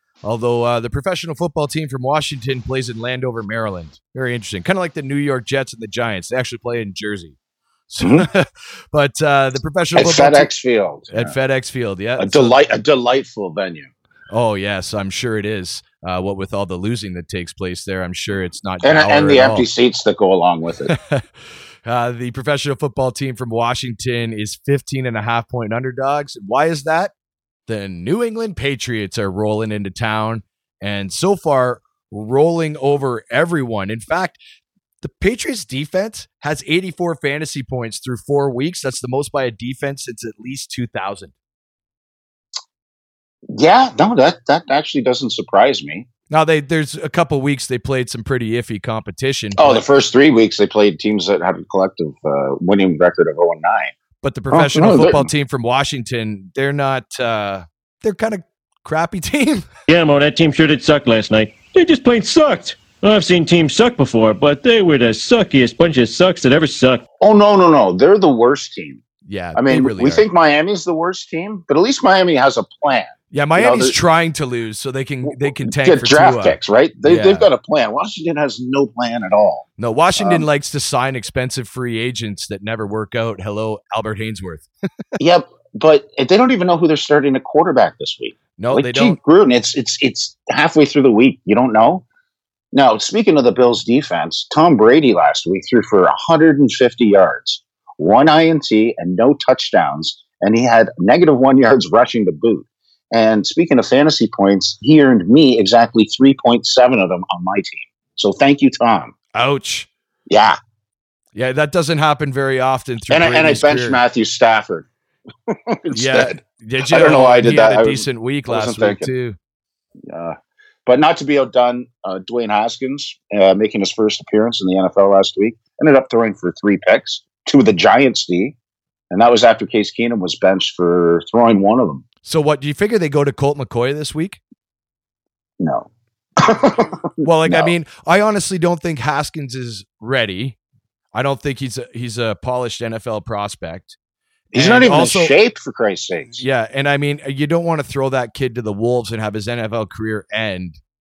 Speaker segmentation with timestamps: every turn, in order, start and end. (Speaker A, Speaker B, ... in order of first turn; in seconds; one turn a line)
Speaker A: 0.2-7.4
Speaker A: 7.9-10.5
Speaker B: 8.0-8.3
Speaker B: 9.9-11.4
Speaker A: 11.1-12.6
Speaker B: 12.2-13.9
Speaker A: 14.3-19.7
Speaker B: 18.8-20.9
Speaker A: 20.9-21.2
Speaker A: 21.9-27.1
Speaker A: 27.7-34.4
Speaker A: 35.0-41.3
Speaker B: 43.5-46.1
Speaker A: 46.3-49.8
Speaker B: 49.6-53.9
Speaker A: 54.2-59.7
Speaker B: 54.5-55.3
Speaker C: 59.9-67.0
Speaker B: 67.2-69.0
Speaker A: 69.2-70.2
Speaker B: 69.5-74.0
Speaker A: 73.3-77.5
Speaker B: 75.3-79.7
Speaker A: 79.8-84.7
Speaker B: 80.2-80.5
Speaker B: 85.2-92.0
Speaker A: 88.6-89.2
Speaker B: 92.7-109.1
Speaker A: 109.3-109.9
Speaker B: 110.3-110.6
Speaker A: 111.3-114.0
Speaker B: 113.1-114.9
Speaker B: 115.5-116.4
Speaker A: 115.9-119.4
Speaker B: 116.9-119.1
Speaker B: 120.0-128.6
Speaker B: 129.1-132.1
Speaker A: 132.2-134.4
Speaker B: 135.6-137.7
Speaker A: 137.2-140.6
Speaker A: 141.1-144.0
Speaker B: 144.5-146.4
Speaker A: 144.5-145.3
Speaker A: 146.4-150.8